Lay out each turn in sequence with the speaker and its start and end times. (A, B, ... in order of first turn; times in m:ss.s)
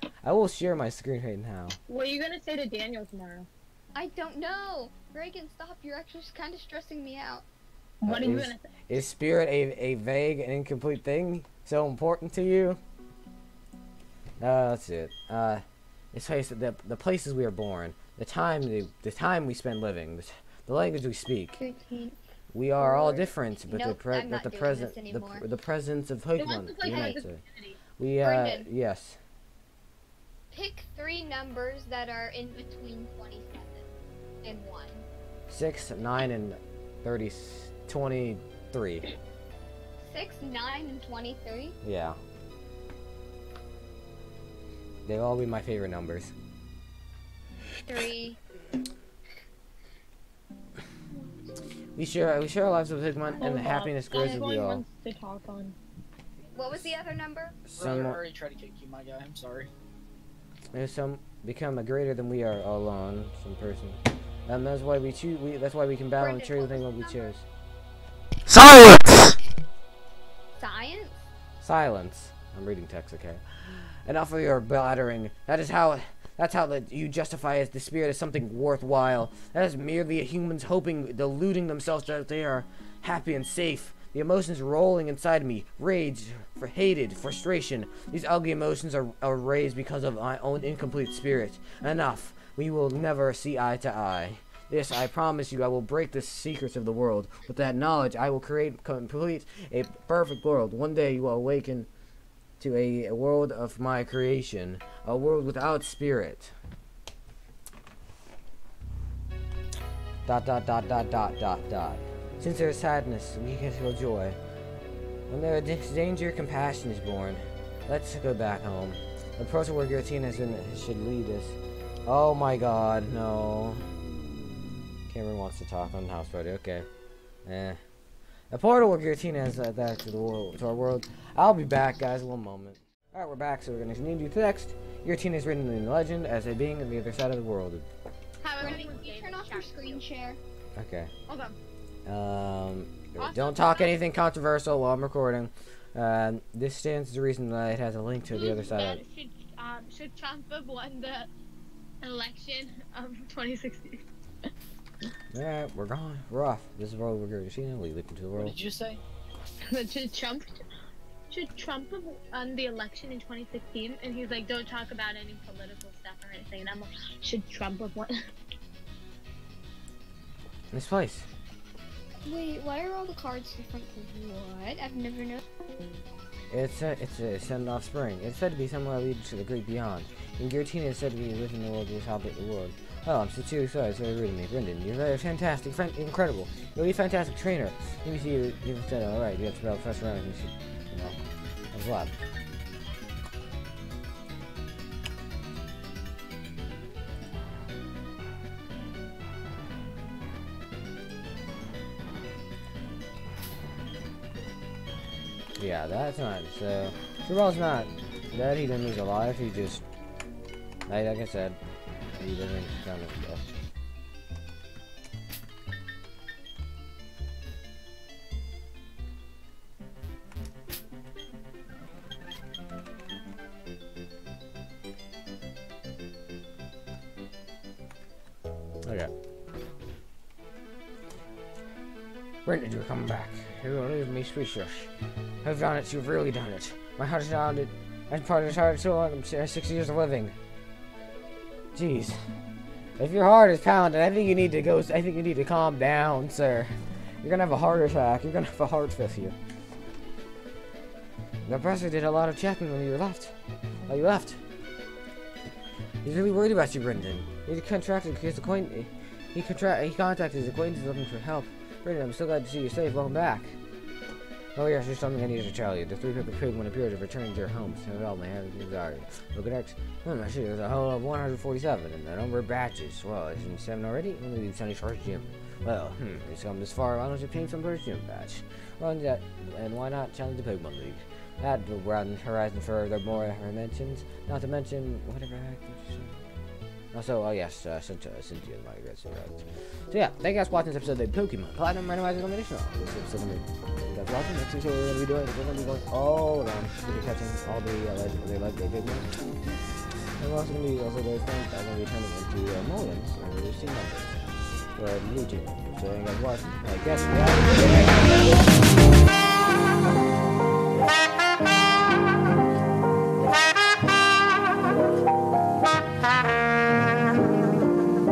0:00.2-0:01.8 A
0:01.9-0:03.5 B
0:04.0-0:07.5 C
0:08.0-0:08.7 B
0:08.0-0:12.8 A
0:14.4-0:21.6 A
0:21.6-0:22.2 C
0:22.5-0:27.4 A
0:22.8-0:25.4 C
0:26.4-0:27.8 B
0:28.0-0:29.2 A
0:28.2-0:28.7 C
0:30.5-0:33.9 C
0:34.4-0:35.1 C
0:35.5-0:39.1 A
0:40.0-0:41.8 C
0:41.8-0:42.2 A
0:45.1-0:46.3 A
0:47.8-0:48.4 C
0:52.0-0:54.8 A
0:53.4-0:55.8 B
0:54.1-0:54.4 C
0:56.5-0:57.6 C
0:57.7-0:58.2 A
0:57.8-0:59.7 D
1:00.7-1:07.4 A
1:06.2-1:07.3 C
1:08.5-1:09.4 A
1:10.6-1:11.2 C
1:11.6-1:41.9 A
1:42.6-1:46.5 A
1:50.2-1:54.4 A
1:55.3-2:03.9 A
2:05.1-2:06.9 A
2:07.4-2:07.8 A
2:08.5-2:17.8 A
2:18.4-2:20.0 B
2:18.6-2:20.4 C
2:20.8-2:21.1 A
2:21.3-2:21.6 B
2:22.1-2:29.0 A
2:23.2-2:24.0 B
2:28.3-2:31.3 B
2:32.0-2:34.0 B
2:35.3-2:38.6 A
2:38.4-2:39.0 D
2:39.7-2:40.6 B
2:41.3-2:48.1 B
2:50.7-2:51.3 A
2:52.2-2:55.4 C
2:56.5-3:11.2 A
3:11.7-3:12.2 A
3:25.6-3:29.8 A
3:30.9-3:31.6 A
3:32.1-3:33.6 A
3:48.8-3:49.1 A
3:52.4-3:54.9 A
3:55.4-4:00.4 A
4:01.7-4:02.2 A
4:03.0-4:09.4 A
4:11.5-4:13.4 A
4:13.9-4:14.4 A
4:16.0-4:23.6 A
4:24.6-4:46.2 A
4:46.9-4:59.2 A
5:00.2-5:04.2 A
5:04.8-5:08.5 A